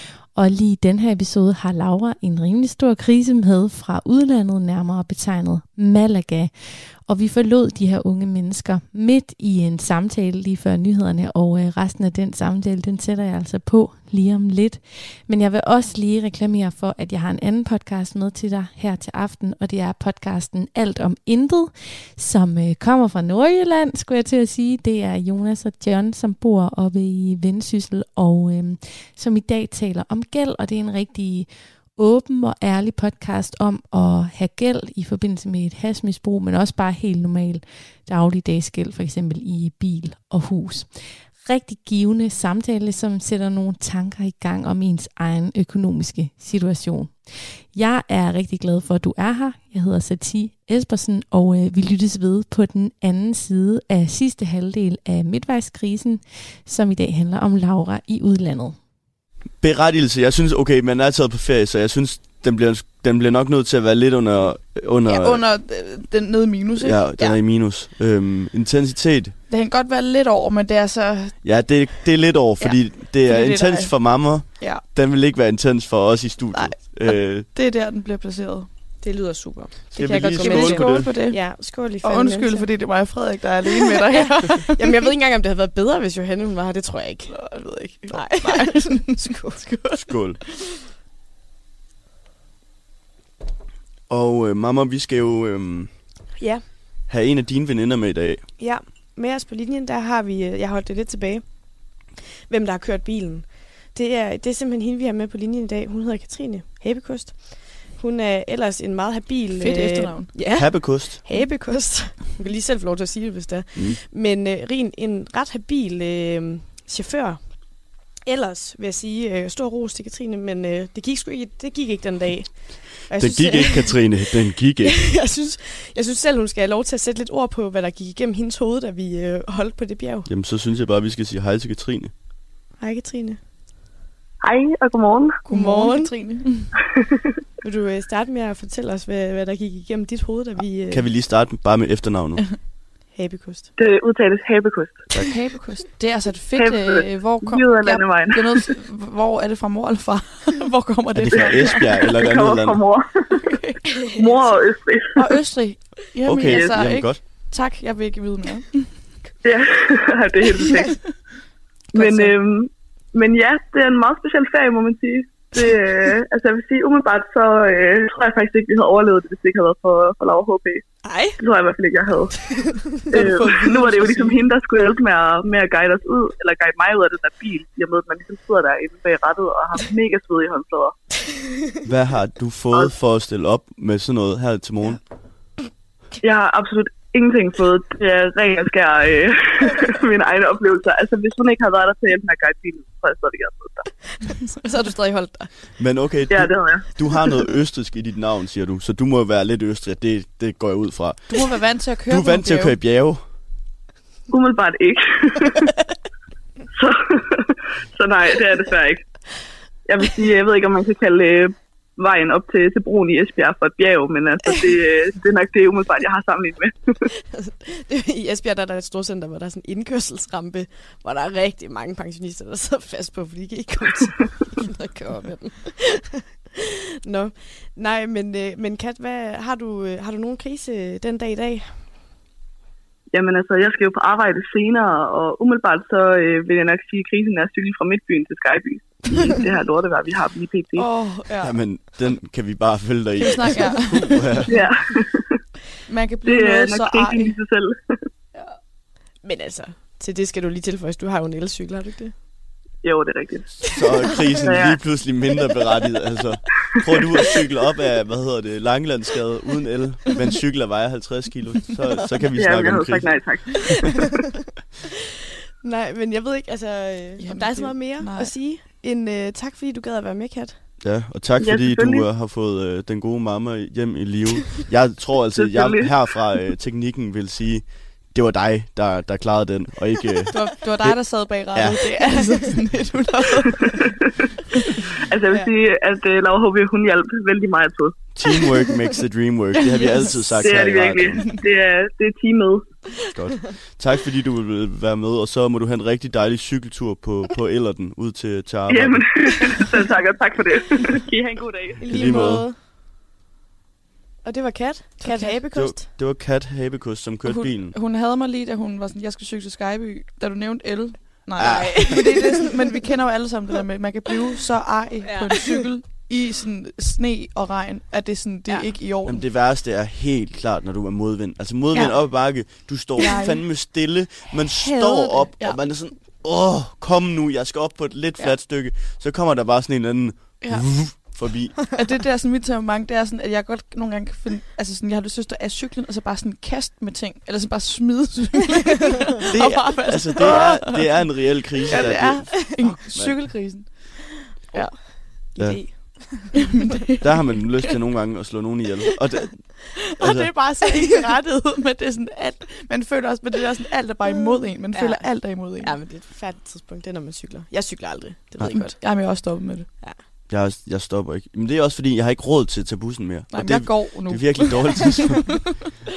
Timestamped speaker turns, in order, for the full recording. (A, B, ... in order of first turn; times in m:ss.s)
0:00.3-0:06.5 A
0:07.0-0:40.9 A
0:41.4-0:47.1 A
0:47.7-0:58.8 A
0:59.6-1:05.5 B
1:05.0-1:07.4 C
1:06.8-1:09.4 B
1:09.5-1:11.5 C
1:11.4-1:17.5 B
1:12.6-1:14.8 C
1:16.5-1:18.7 C
1:19.0-1:22.9 D
1:19.9-1:21.2 B
1:20.0-1:24.9 C
1:23.7-1:27.3 D
1:27.3-1:29.9 C
1:28.1-1:29.9 D
1:30.0-1:30.4 B
1:34.1-1:36.1 B
1:36.4-1:36.6 D
1:37.1-1:38.5 B
1:38.6-1:41.5 D
1:42.5-1:57.6 D
1:49.5-1:50.4 C
1:50.5-1:51.2 B
1:53.7-1:54.0 B
1:58.2-2:10.3 D
2:03.1-2:05.0 B
2:10.2-2:12.1 B
2:12.8-2:13.4 D
2:14.4-2:15.4 E
2:15.4-2:16.7 C
2:15.5-2:16.1 D
2:17.6-2:21.1 D
2:20.9-2:22.4 B
2:23.1-2:23.7 D
2:23.8-2:25.1 E
2:25.1-2:32.2 C
2:26.6-2:28.6 E
2:31.1-2:32.8 B
2:31.3-2:33.4 E
2:33.4-2:34.1 C
2:34.1-2:35.2 E
2:35.2-2:39.0 C
2:36.2-2:37.2 B
2:36.4-2:36.8 E
2:39.4-2:41.0 E
2:41.9-2:50.8 E
2:41.9-2:42.3 C
2:51.0-2:51.4 D
2:51.4-2:52.4 E
2:53.0-2:53.2 D
2:53.1-3:01.0 E
2:53.1-2:54.4 C
3:01.8-3:05.0 B
3:06.2-3:13.9 E
3:14.6-3:15.5 D
3:14.6-3:14.9 C
3:15.8-3:21.4 B
3:16.3-3:16.9 E
3:21.3-3:22.8 C
3:22.0-3:23.2 B
3:24.3-3:25.7 E
3:26.7-3:29.1 E
3:29.8-3:36.9 E
3:37.3-3:51.8 D
3:53.1-4:00.8 E
4:00.8-4:01.6 C
4:01.4-4:04.5 B
4:03.2-4:04.5 C
4:04.5-4:05.4 E
4:05.9-4:07.4 C
4:06.2-4:08.0 E
4:09.2-4:12.1 D
4:12.8-4:14.8 E
4:13.6-4:23.2 B
4:13.7-4:14.5 D
4:22.3-4:23.9 E
4:25.6-4:30.6 D
4:27.2-4:28.5 C
4:30.8-4:41.8 B
4:31.4-4:32.0 E
4:35.3-4:36.2 E
4:40.3-4:43.8 C
4:43.5-4:44.1 E
4:45.0-4:48.5 E
4:48.1-4:51.2 B
4:49.7-4:50.4 C
4:50.4-4:52.6 E
4:53.1-4:59.1 B
4:58.7-5:02.1 E
5:01.8-5:02.6 D
5:01.9-5:02.5 B
5:04.2-5:05.9 D
5:05.0-5:05.4 C
5:05.5-5:07.7 B
5:07.2-5:19.2 C
5:11.4-5:12.0 B
5:11.4-5:12.3 D
5:15.1-5:15.6 D
5:19.0-5:31.6 B
5:23.0-5:23.6 C
5:24.6-5:25.6 C
5:30.4-5:31.1 C
5:31.7-5:47.7 C
5:39.3-5:43.5 B
5:40.1-5:40.6 D
5:41.7-5:42.8 D
5:44.3-5:46.4 D
5:45.4-5:45.7 B
5:47.0-5:50.3 B
5:49.9-5:55.8 C
5:50.6-5:51.1 D
5:54.1-5:59.2 D
5:58.4-5:59.7 C
6:00.3-6:05.4 B
6:03.3-6:05.6 C